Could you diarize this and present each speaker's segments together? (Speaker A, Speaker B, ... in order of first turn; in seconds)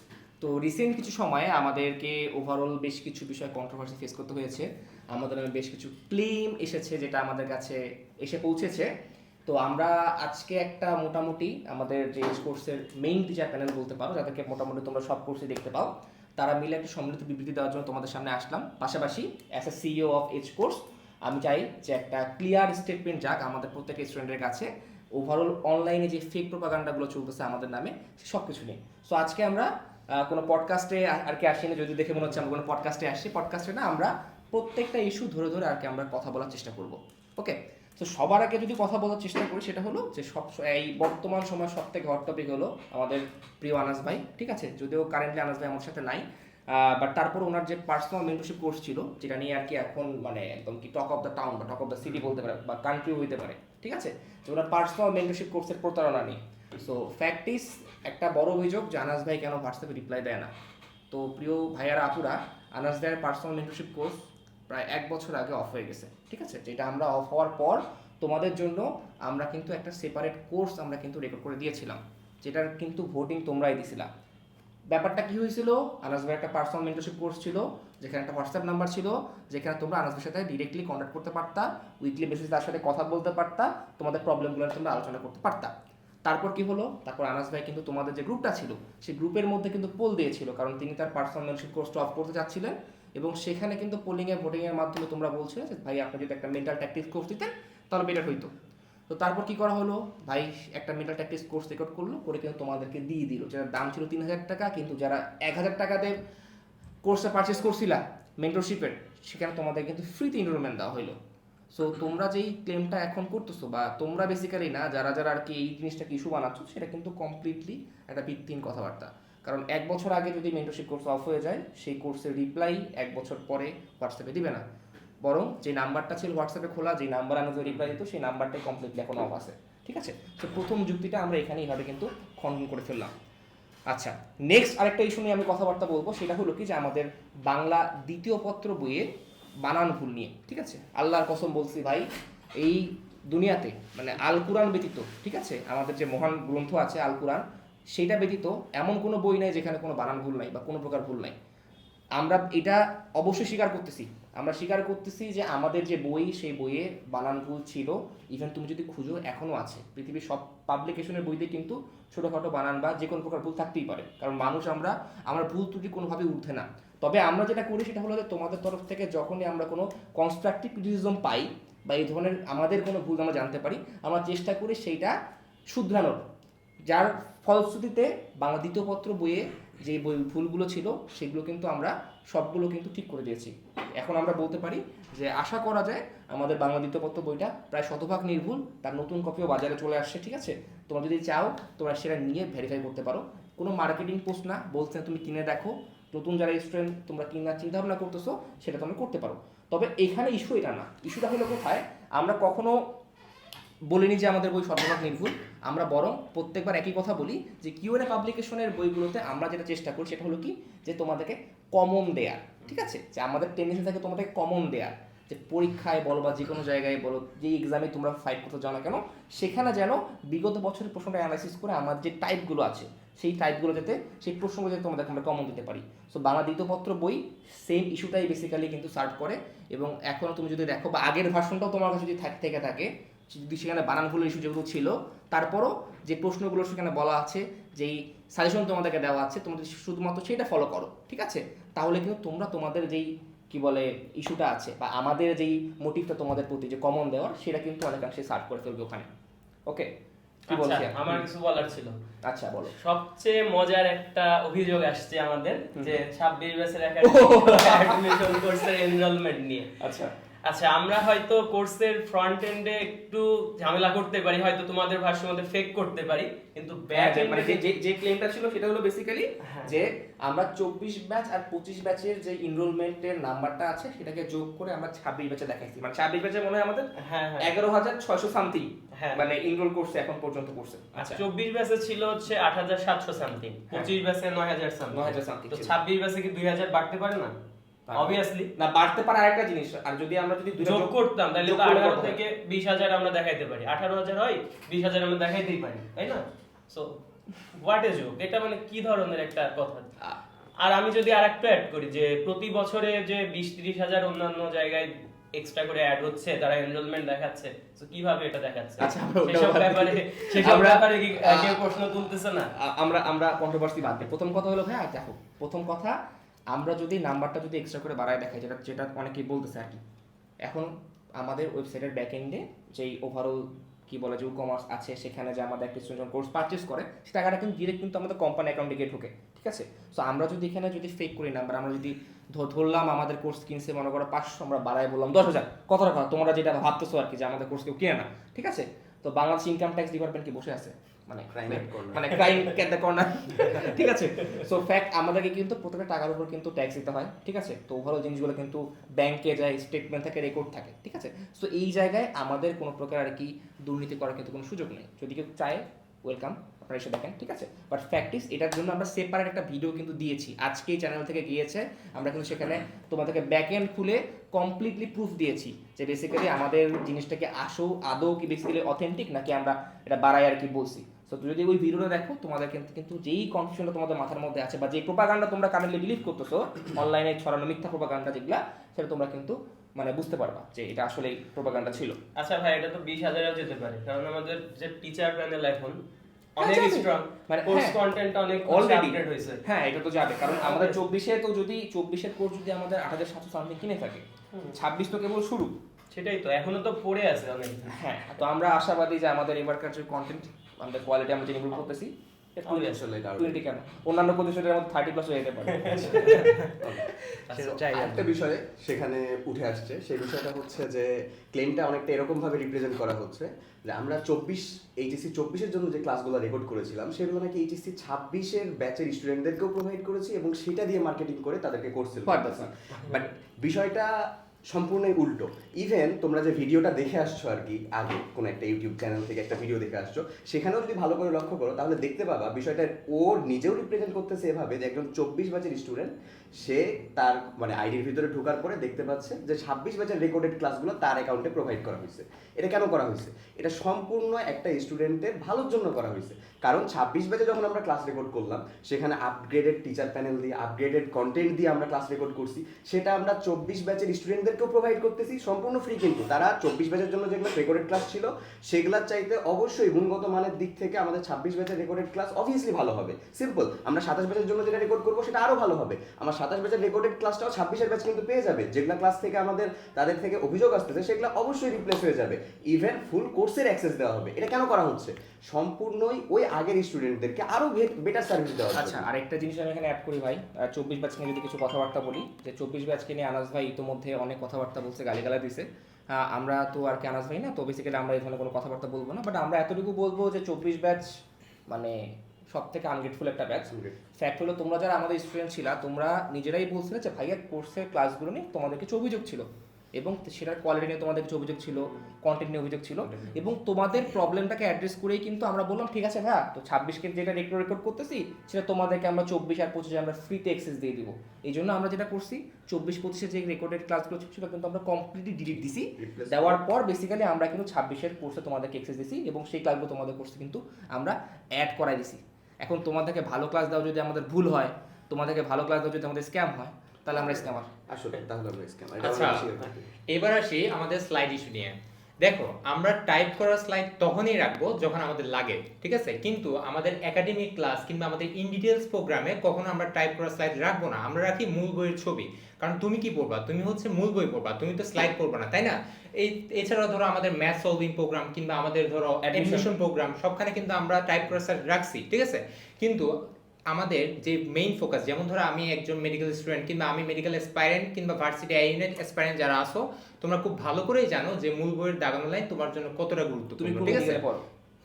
Speaker A: 0.4-8.9, 9.5-60.5, 61.1-64.2, 64.7-74.1, 74.9-85.7, 86.2-98.5, 99.1-106.2, 107.0-111.2, 111.7-124.6, 125.2-133.1, 133.9-139.1, 139.6-142.1, 142.6-151.3, 152.2-175.2, 175.7-176.2, 176.9-202.8, 203.9-249.1, 250.5-251.2, 252.3-252.7, 257.0-258.4, 259.8-260.1, 266.9-276.9, 277.4-281.2, 284.9-285.7, 287.9-292.2, 308.8-311.6, 312.6-315.9, 316.5-319.8, 320.4-382.0, 386.4-387.8, 388.4-395.6, 397.7-406.5, 422.1-422.5, 478.5-490.9, 491.5-491.8, 492.3-527.5, 549.0-549.5, 563.4-564.3
Speaker B: 250.5-252.0, 252.7-259.7, 260.5-267.7, 277.1-277.5, 279.0-279.3, 281.0-287.3, 287.9-288.5, 290.6-297.0, 297.6-299.9, 300.6-312.5, 382.2-385.8, 386.4-389.4, 390.2-390.8, 395.9-397.8, 402.5-402.9, 405.6-406.4, 407.3-407.6
Speaker C: 341.3-342.2, 402.7-403.4, 406.6-478.9, 515.8-516.4, 527.7-529.7
Speaker D: 528.8-529.3, 529.9-552.9, 553.5-564.0